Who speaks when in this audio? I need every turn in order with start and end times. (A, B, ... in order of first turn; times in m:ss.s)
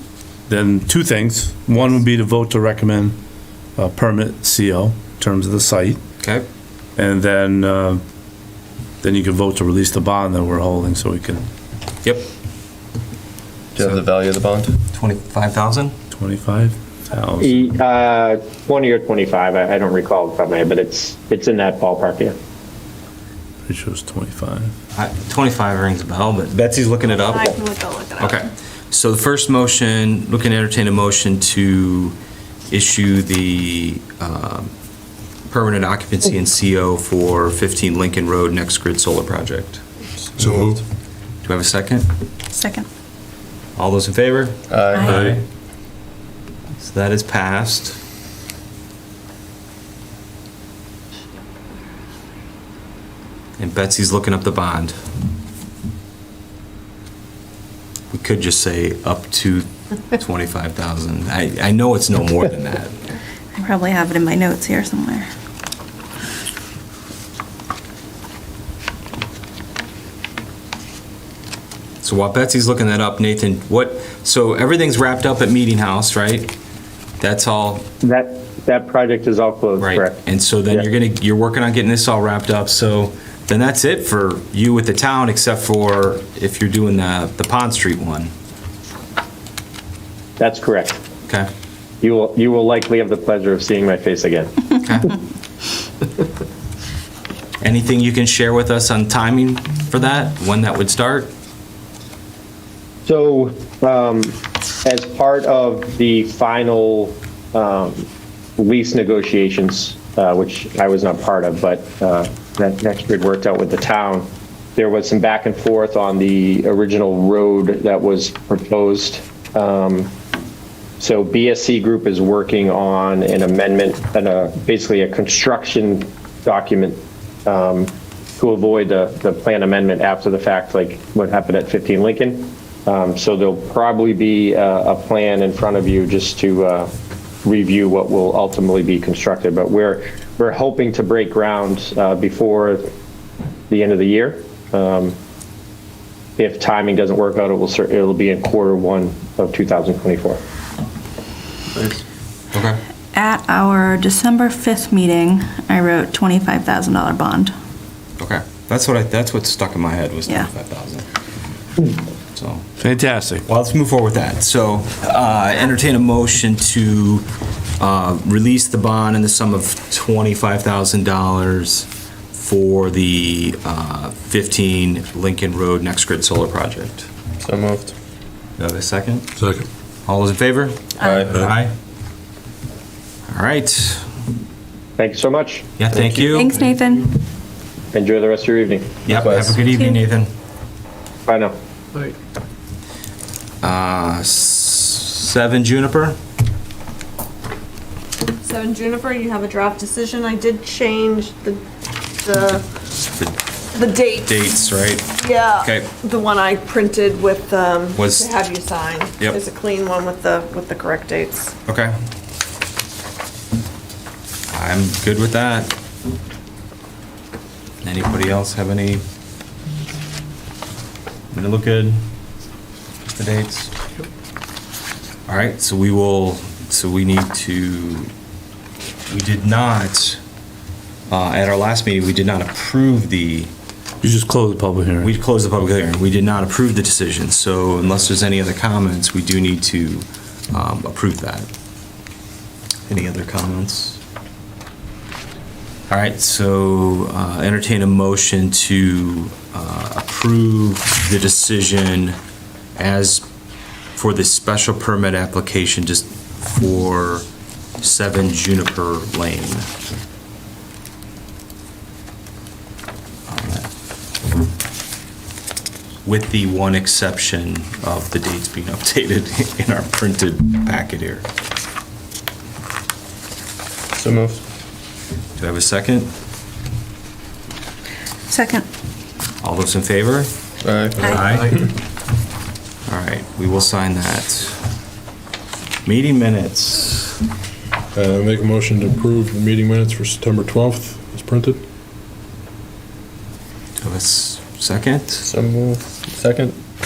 0:00.5-0:03.2 A
0:03.8-0:06.0 A
0:07.0-0:08.0 A
0:09.0-0:11.5 A
0:13.8-0:14.8 B
0:14.9-0:15.9 C
0:16.1-0:17.7 A
0:17.4-0:22.4 D
0:23.7-0:24.7 A
0:24.9-0:27.6 C
0:27.1-0:28.5 E
0:28.2-0:32.2 C
0:32.7-0:34.7 C
0:35.5-0:39.8 C
0:40.4-0:40.8 F
0:40.4-0:40.8 B
0:41.4-0:42.1 C
0:42.5-0:42.8 G
0:43.8-0:45.4 C
0:44.7-0:45.2 B
0:46.8-0:48.0 C
0:53.6-0:55.0 C
0:58.1-1:03.0 C
1:03.6-1:05.3 G
1:12.0-1:16.5 C
1:17.2-1:17.9 C
1:18.0-1:20.2 D
1:19.8-1:28.3 C
1:30.4-1:31.0 D
1:32.0-1:34.5 D
1:34.8-1:35.1 C
1:37.6-1:41.3 C
1:43.0-1:48.1 D
1:48.6-2:00.1 D
2:01.0-2:16.9 D
2:17.4-2:22.9 D
2:23.7-2:25.2 D
2:26.4-2:30.4 D
2:31.7-2:32.0 B
2:32.5-2:32.8 C
2:33.1-2:37.5 G
2:38.2-2:41.1 C
2:42.3-2:42.6 C
2:42.8-2:43.4 A
2:43.5-2:47.2 C
2:47.8-2:57.1 C
2:57.4-2:57.9 B
2:58.6-2:59.3 C
2:59.4-2:59.7 F
3:00.1-3:01.7 C
3:01.0-3:01.5 B
3:03.3-3:04.1 C
3:05.0-3:05.7 D
3:05.8-3:06.5 C
3:05.9-3:06.4 B
3:06.3-3:07.2 G
3:07.9-3:09.0 D
3:09.0-3:10.3 C
3:09.1-3:09.6 B
3:11.3-3:11.5 D
3:13.6-3:16.2 C
3:18.4-3:21.6 E
3:22.2-3:22.6 E
3:23.7-3:24.3 E
3:24.2-3:25.9 C
3:25.2-3:31.5 E
3:27.9-3:28.3 C
3:31.7-3:31.9 C
3:34.5-3:35.7 C
3:37.8-3:39.0 C
3:41.3-3:42.0 C
3:43.0-3:43.7 C
3:45.3-3:48.1 C
3:49.1-3:50.2 C
3:51.1-3:53.5 C
3:54.0-3:55.1 A
3:55.0-4:01.5 C
4:02.9-4:04.0 C
4:05.9-4:12.2 C
4:12.8-4:13.2 C
4:13.9-4:17.2 C
4:17.8-4:19.7 C
4:23.3-4:23.7 C
4:26.0-4:31.2 C
4:33.9-4:34.4 B
4:35.4-4:36.1 C
4:38.3-4:38.7 G
4:39.4-4:40.3 C
4:40.6-4:41.4 B
4:41.0-4:41.5 C
4:42.9-4:44.6 C
4:45.8-4:47.2 C
4:47.9-4:51.6 F
4:53.8-4:55.3 C
4:55.2-4:56.6 B